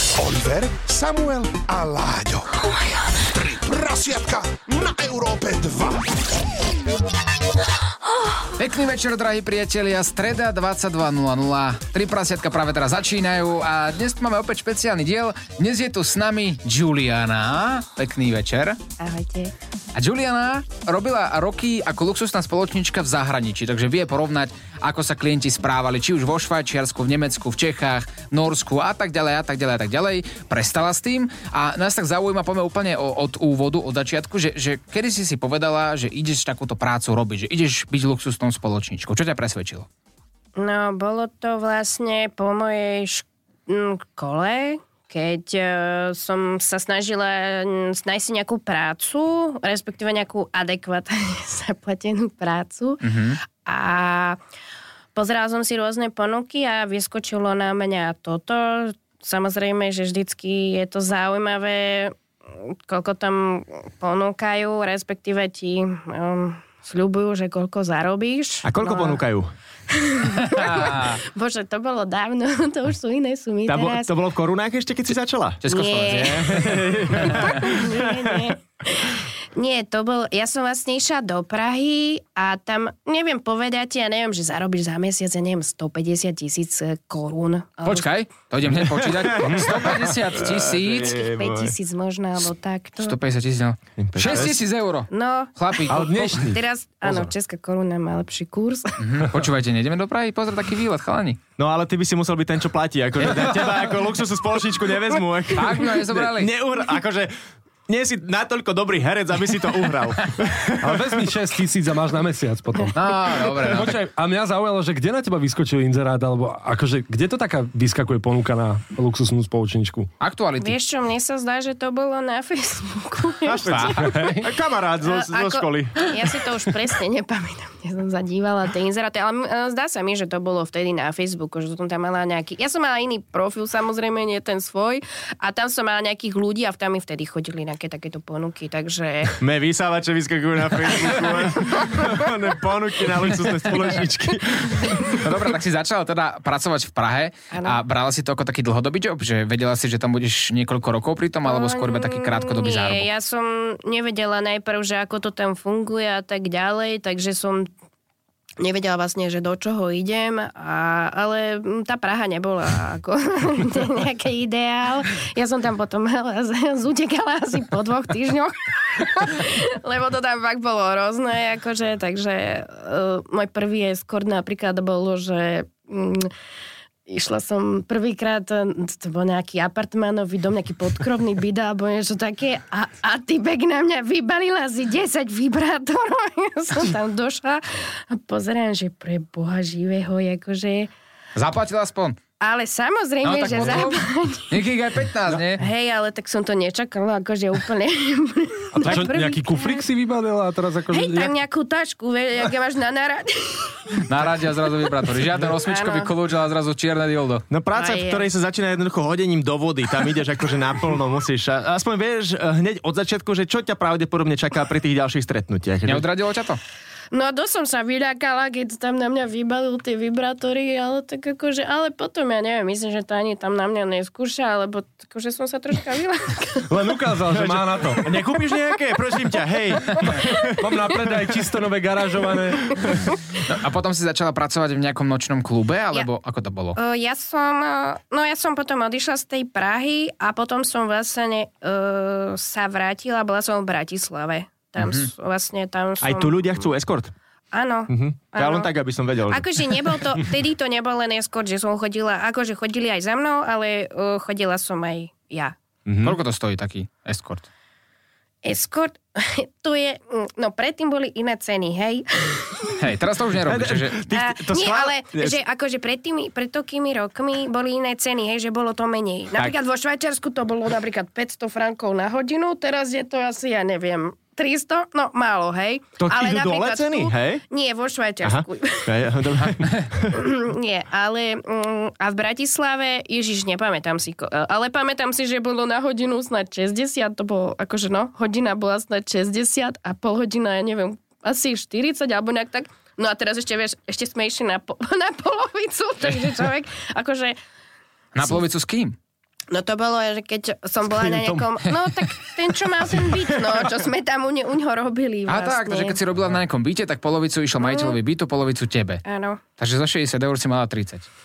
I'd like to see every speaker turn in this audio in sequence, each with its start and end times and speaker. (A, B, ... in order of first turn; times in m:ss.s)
0:00.2-0:02.6 A
0:03.3-0:06.1 A
0:08.6-0:18.8 B
0:19.0-0:19.5 C
0:19.9-0:39.9 B
0:40.6-0:53.1 C
0:53.0-0:53.4 B
0:53.6-0:54.4 C
0:55.2-1:09.2 C
1:08.6-1:09.5 D
1:09.9-1:14.1 C
1:10.5-1:11.2 B
1:13.7-1:18.4 D
1:15.6-1:17.3 B
1:15.7-1:16.6 C
1:17.1-1:28.1 C
1:27.8-1:31.2 B
1:28.8-1:31.7 D
1:31.0-1:33.2 C
1:33.0-1:36.4 B
1:34.0-1:34.6 D
1:35.1-1:39.0 C
1:35.9-1:37.3 E
1:39.0-1:41.4 B
1:41.6-1:47.3 D
1:45.5-1:46.5 B
1:47.9-1:51.2 D
1:50.8-2:00.1 E
1:53.0-1:54.0 B
2:00.2-2:00.8 B
2:00.6-2:04.4 C
2:03.4-2:06.2 D
2:03.8-2:04.5 E
2:05.0-2:19.4 C
2:19.4-2:25.1 D
2:25.1-2:33.1 B
2:27.5-2:27.8 C
2:31.4-2:37.7 C
2:38.6-2:56.3 C
2:57.1-3:10.9 C
3:11.4-3:12.2 B
3:12.4-3:14.6 C
3:13.2-3:15.6 B
3:15.6-3:19.9 C
3:18.7-3:21.3 E
3:20.9-3:24.0 C
3:24.1-3:27.4 B
3:25.6-3:26.1 C
3:27.5-3:36.0 D
3:27.7-3:28.3 C
3:35.8-3:36.6 B
3:37.1-3:46.7 C
3:46.7-3:48.0 E
3:47.3-3:51.2 D
3:50.6-3:53.2 E
3:53.5-3:56.8 B
3:56.8-4:06.7 C
4:04.8-4:05.1 B
4:06.0-4:07.1 D
4:07.5-4:08.7 C
4:07.9-4:10.0 D
4:09.3-4:15.6 C
4:15.9-4:16.2 D
4:16.0-4:17.5 B
4:18.4-4:22.8 C
4:22.8-4:24.0 B
4:23.4-4:25.4 D
4:24.1-4:38.9 C
4:36.0-4:37.4 D
4:38.2-4:40.2 D
4:40.1-4:57.4 C
4:56.0-4:56.5 B
4:58.1-4:59.0 B
4:59.5-5:06.0 C
5:01.0-5:01.4 E
5:05.3-5:09.0 B
5:07.6-5:08.0 C
5:09.0-5:09.4 C
5:09.6-5:11.1 B